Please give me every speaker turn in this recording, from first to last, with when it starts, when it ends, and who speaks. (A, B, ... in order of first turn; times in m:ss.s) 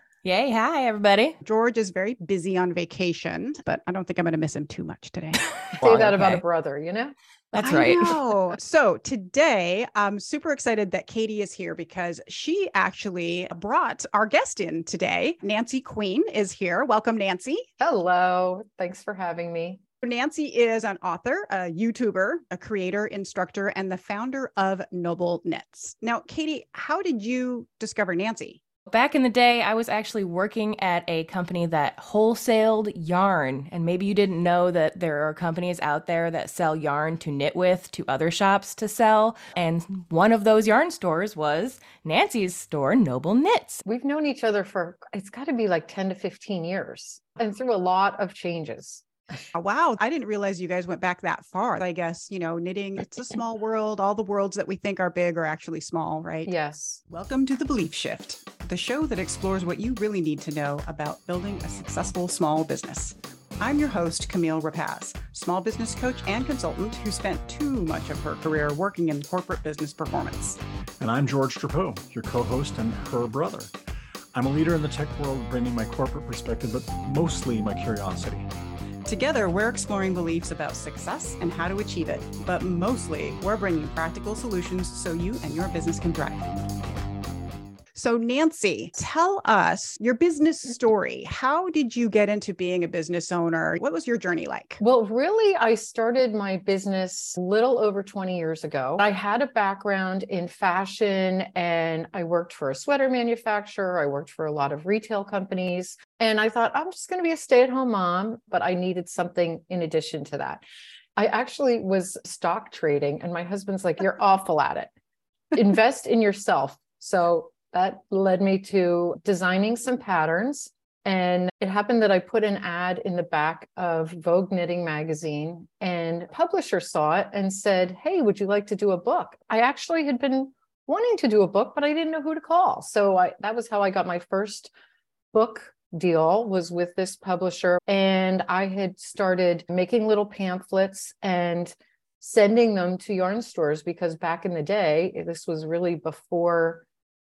0:00.2-0:01.4 A
0:01.4-0:05.4 B
0:05.7-0:06.4 A
0:05.8-0:07.8 C
0:07.6-0:08.2 A
0:07.6-0:17.7 B
0:17.8-0:19.8 C
0:20.0-0:28.6 B
0:28.9-0:43.8 A
0:43.8-0:49.0 C
0:49.5-0:56.5 B
0:56.5-0:57.0 C
0:57.1-1:10.6 B
1:11.0-1:13.7 D
1:14.3-1:18.5 D
1:19.0-1:26.5 B
1:28.0-1:34.8 B
1:34.8-1:50.6 C
1:51.2-1:54.9 C
1:55.5-2:14.7 C
2:15.3-2:26.8 C